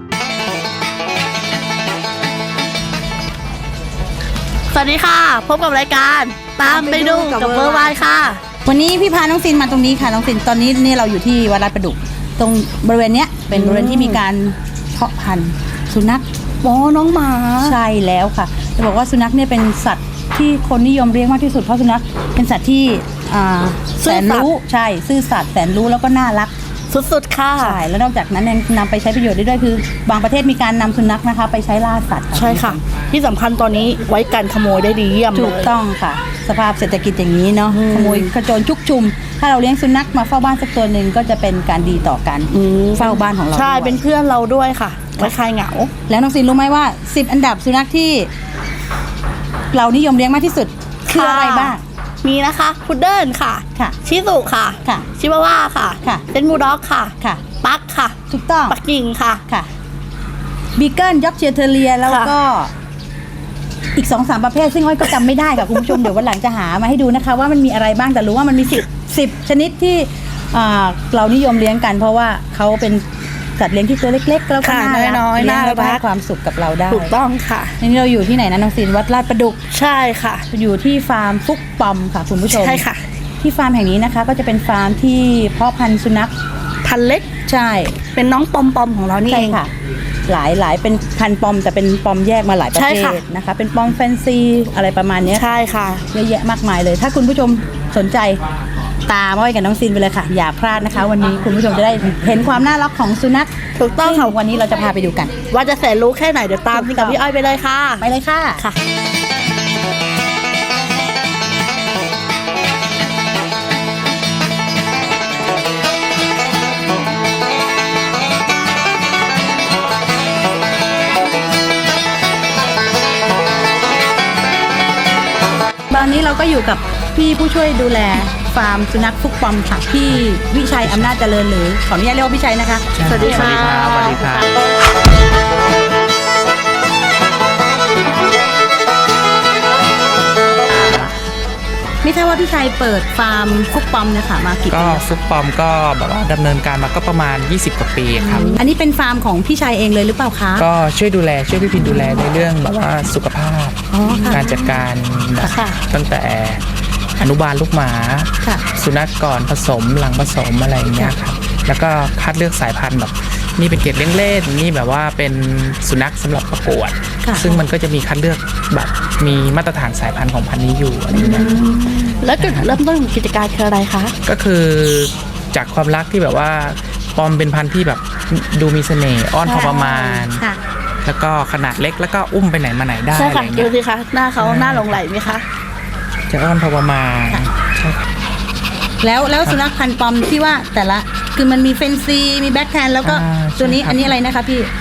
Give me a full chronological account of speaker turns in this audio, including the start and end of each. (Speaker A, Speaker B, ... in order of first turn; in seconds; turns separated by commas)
Speaker A: 4.7-8.4, Speaker B: 6.6-8.0, Speaker B: 8.6-16.2, Speaker A: 13.5-14.2, Speaker A: 16.6-17.8, Speaker B: 17.6-26.5, Speaker A: 24.0-24.5, Speaker A: 26.9-27.8, Speaker B: 27.6-32.8, Speaker A: 32.3-35.7, Speaker B: 35.3-44.0, Speaker A: 37.7-38.3, Speaker A: 42.5-45.9, Speaker B: 46.1-48.3, Speaker B: 49.7-51.8, Speaker A: 51.1-58.2, Speaker B: 58.3-58.8, Speaker A: 58.7-59.4, Speaker B: 60.8-62.7, Speaker A: 62.0-62.3, Speaker B: 64.0-73.0, Speaker B: 73.6-77.1, Speaker A: 74.6-76.0, Speaker A: 76.9-77.7, Speaker B: 77.8-79.6, Speaker A: 79.7-80.4, Speaker B: 80.5-82.8, Speaker A: 82.5-83.0, Speaker B: 83.4-86.3, Speaker A: 86.8-87.3, Speaker B: 87.5-88.0, Speaker A: 88.1-89.6, Speaker B: 89.3-89.7, Speaker B: 90.3-95.5, Speaker A: 92.7-93.2, Speaker A: 95.3-96.0, Speaker B: 96.1-98.4, Speaker B: 99.0-105.3, Speaker A: 103.8-104.3, Speaker A: 105.5-108.0, Speaker B: 106.7-107.2, Speaker B: 108.0-108.6, Speaker B: 125.9-133.8, Speaker C: 130.8-131.1, Speaker C: 132.9-134.5, Speaker A: 133.1-134.3, Speaker B: 142.0-145.1, Speaker C: 144.7-148.5, Speaker B: 148.3-150.7, Speaker A: 148.3-148.6, Speaker C: 150.6-156.6, Speaker B: 153.9-154.4, Speaker A: 154.0-154.8, Speaker A: 155.4-155.8, Speaker C: 157.2-171.6, Speaker B: 167.2-167.6, Speaker A: 171.1-174.1, Speaker B: 171.2-172.1, Speaker C: 172.4-172.8, Speaker C: 174.2-180.4, Speaker A: 179.4-180.1, Speaker B: 179.5-180.6, Speaker C: 181.0-183.7, Speaker A: 183.1-185.4, Speaker C: 184.4-185.0, Speaker C: 186.3-188.1, Speaker B: 189.0-194.7, Speaker C: 193.0-194.2